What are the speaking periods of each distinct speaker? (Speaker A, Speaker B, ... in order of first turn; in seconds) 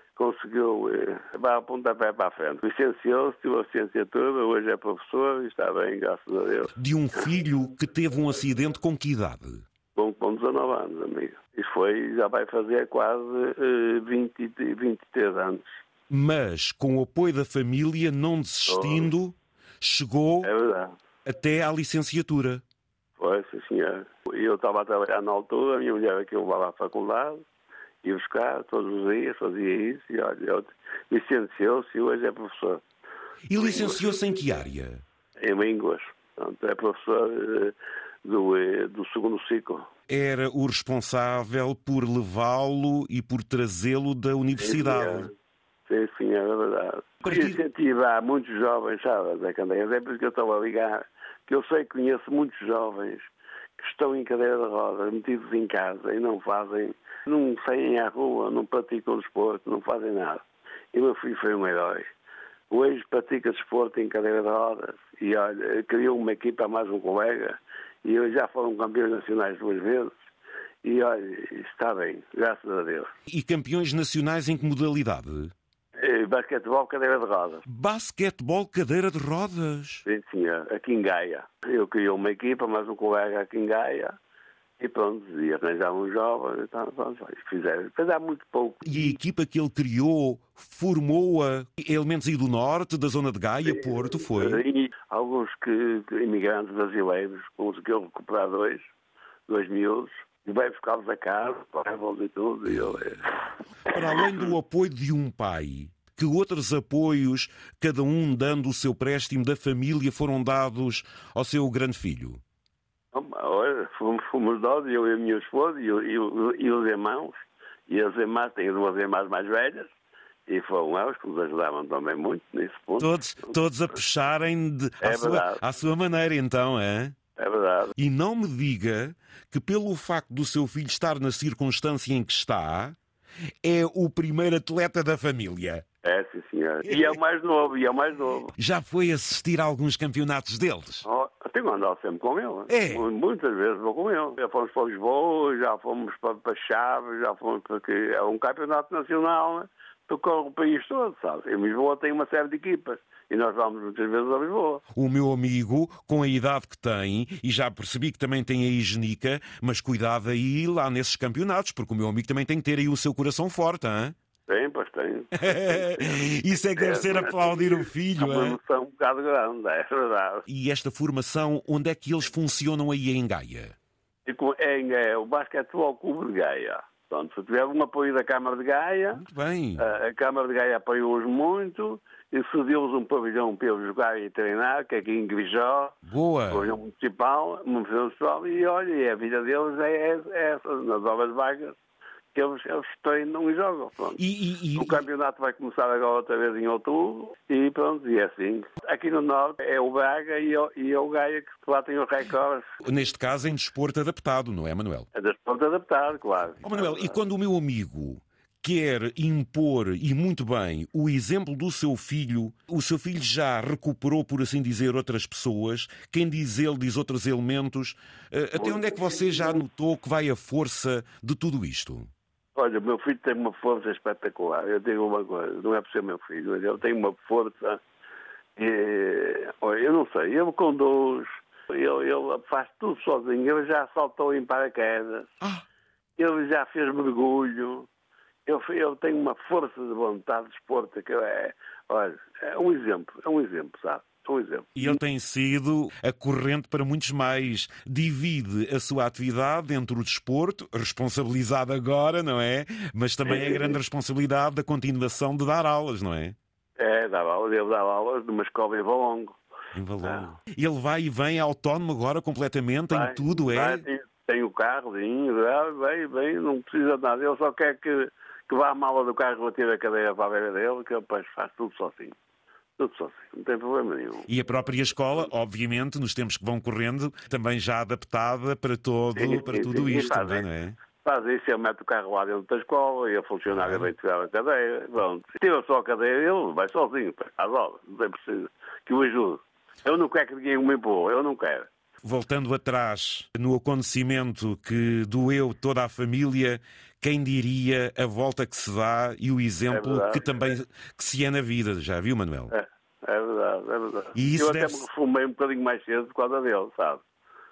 Speaker A: 0.2-6.7, 9.9-15.8, 18.7-19.1, 20.4-20.9, 23.2-27.4, 28.0-32.8, 33.6-34.0, 35.4-39.9, 44.6-45.3, 45.9-62.0, 62.7-70.1, 70.8-73.1, 76.0-77.6, 80.0-84.2, 84.8-88.8, 93.6-98.9, 99.5-103.3, 103.9-104.5, 113.1-119.9, 120.5-123.5, 125.0-125.6, 127.4-127.9, 136.0-138.5, 141.1-154.8, 164.5-170.4, 174.2-179.2, 179.8-191.8, 192.3-194.2, 194.8-202.7, 205.1-207.2, 218.6-219.3, 222.6-227.8, 228.6-235.3, 236.2-237.9, 238.5-245.0, 253.2-253.8, 256.8-259.4, 262.9-272.1, 272.8-274.3, 279.2-280.5, 281.0-291.7, 299.7-300.3, 302.5-307.0
Speaker B: 6.8-9.6, 16.1-20.5, 21.2-22.6, 33.5-35.0, 40.1-45.3, 47.2-47.6, 73.3-75.5, 77.6-80.0, 88.8-94.6, 103.9-112.4, 123.0-127.1, 128.0-132.9, 133.6-135.8, 138.6-141.1, 142.7-143.1, 154.9-164.2, 165.3-168.6, 170.4-173.8, 179.2-179.8, 186.1-186.7, 194.2-195.0, 202.8-205.1, 206.6-222.1, 244.8-256.4, 259.7-263.9, 274.3-280.8, 283.5-283.9, 292.0-302.5, 304.1-304.9